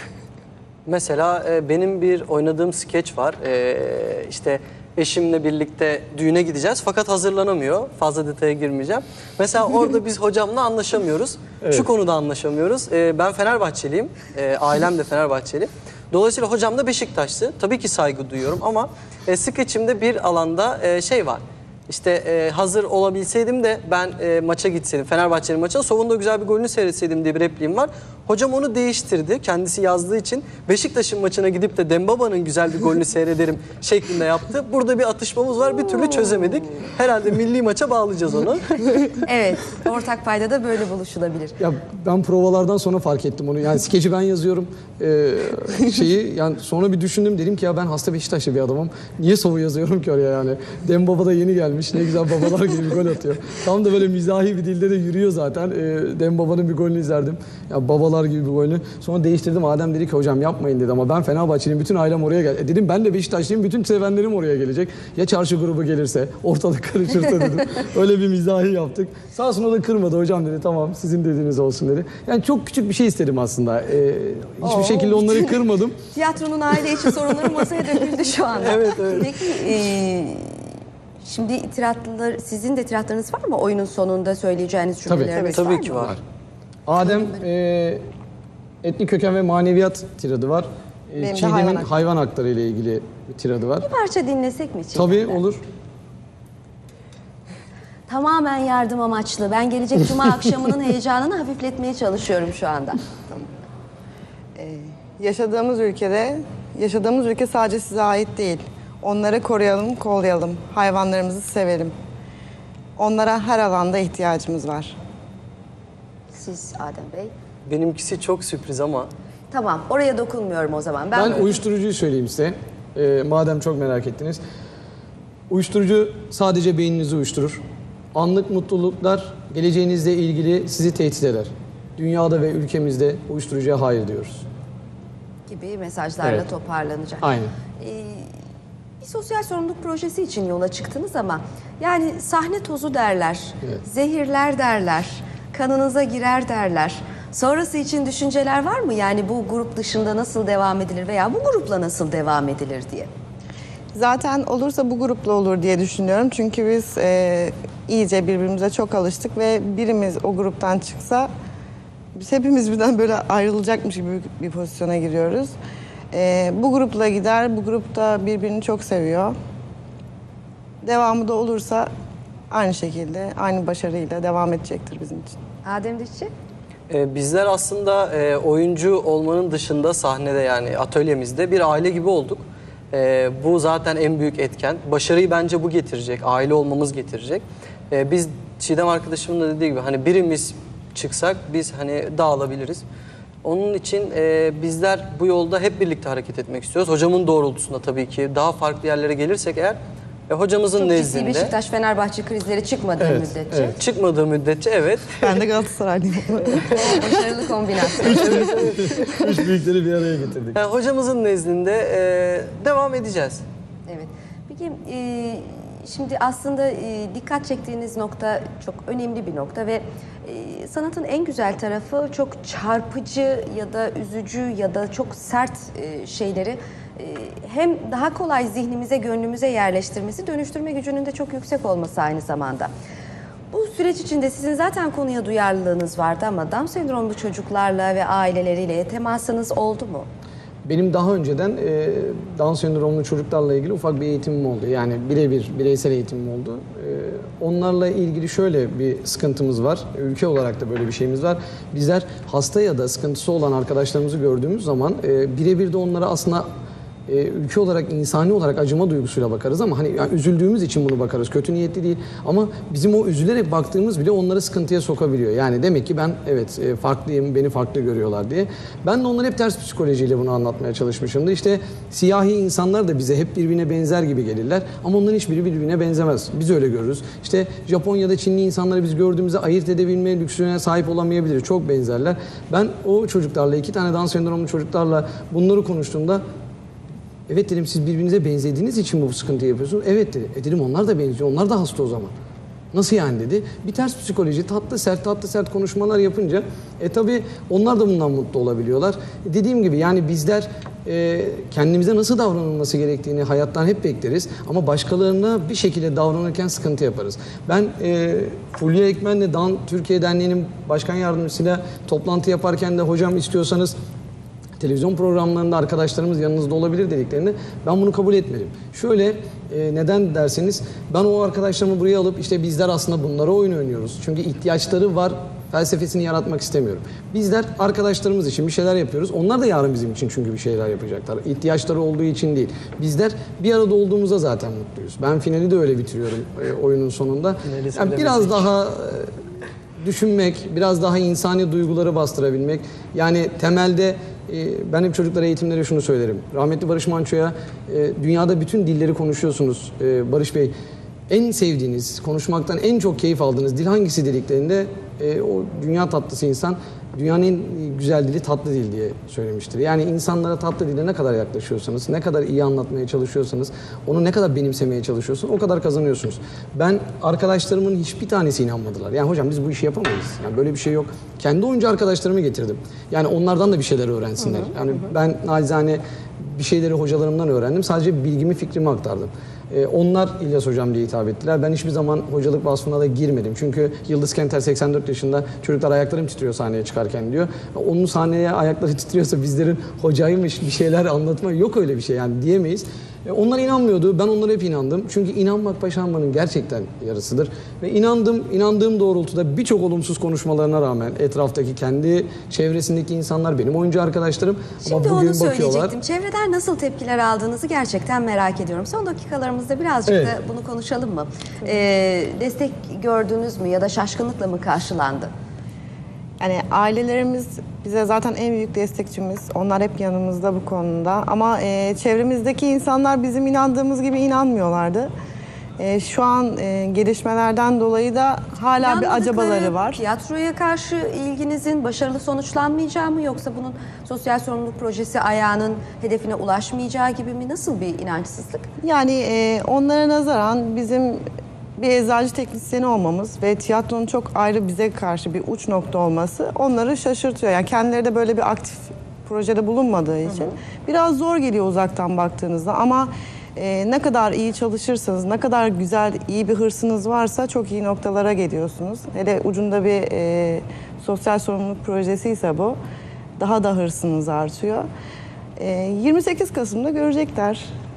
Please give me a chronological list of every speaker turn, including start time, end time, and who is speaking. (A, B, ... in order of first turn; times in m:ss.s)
0:00.9-0:39.1 A
0:11.6-0:11.9 B
0:39.2-0:41.6 C
0:41.6-1:16.0 B
1:14.6-1:15.6 C
1:16.2-1:20.7 C
1:18.6-1:19.4 A
1:21.2-1:26.1 C
1:25.1-1:25.4 B
1:25.3-1:26.2 A
1:26.9-1:28.0 B
1:28.8-1:33.9 B
1:31.2-1:31.9 D
1:33.8-1:35.4 C
1:35.0-1:35.6 B
1:38.1-1:43.0 C
1:44.6-1:51.9 D
1:53.0-1:55.0 D
1:56.3-1:57.3 C
1:57.7-1:59.1 A
1:59.5-2:01.6 C
2:01.1-2:04.4 B
2:05.5-2:07.6 B
2:08.1-2:14.5 B
2:15.5-2:18.3 C
2:17.2-2:17.5 B
2:19.0-2:33.1 C
2:33.9-2:41.3 D
2:42.2-2:45.5 D
2:46.1-2:49.4 D
2:50.8-2:51.9 D
2:52.5-2:55.4 D
2:55.6-2:56.3 C
2:56.9-3:12.8 A
3:13.4-3:19.8 A
3:20.3-3:21.5 A
3:20.8-3:23.8 C
3:23.0-3:23.8 B
3:23.8-3:25.4 A
3:25.2-3:27.1 D
3:26.7-3:28.5 C
3:28.0-3:29.2 A
3:28.3-3:30.6 B
3:30.6-3:33.4 A
3:33.9-3:52.7 C
3:53.5-4:00.1 C
4:00.6-4:16.5 B
4:17.1-4:46.2 B
4:47.3-4:52.1 B
4:52.7-5:13.7 B
5:14.6-5:39.1 B
5:37.4-5:38.5 A
5:39.8-5:50.5 B
5:51.1-6:45.8 B
6:44.6-6:55.1 C
6:49.9-6:50.2 B
6:56.2-7:04.9 D
7:05.6-7:09.8 D
7:08.6-7:18.5 C
7:18.6-7:21.0 D
7:21.6-7:42.6 D
7:43.2-7:44.7 D
7:45.4-7:47.5 D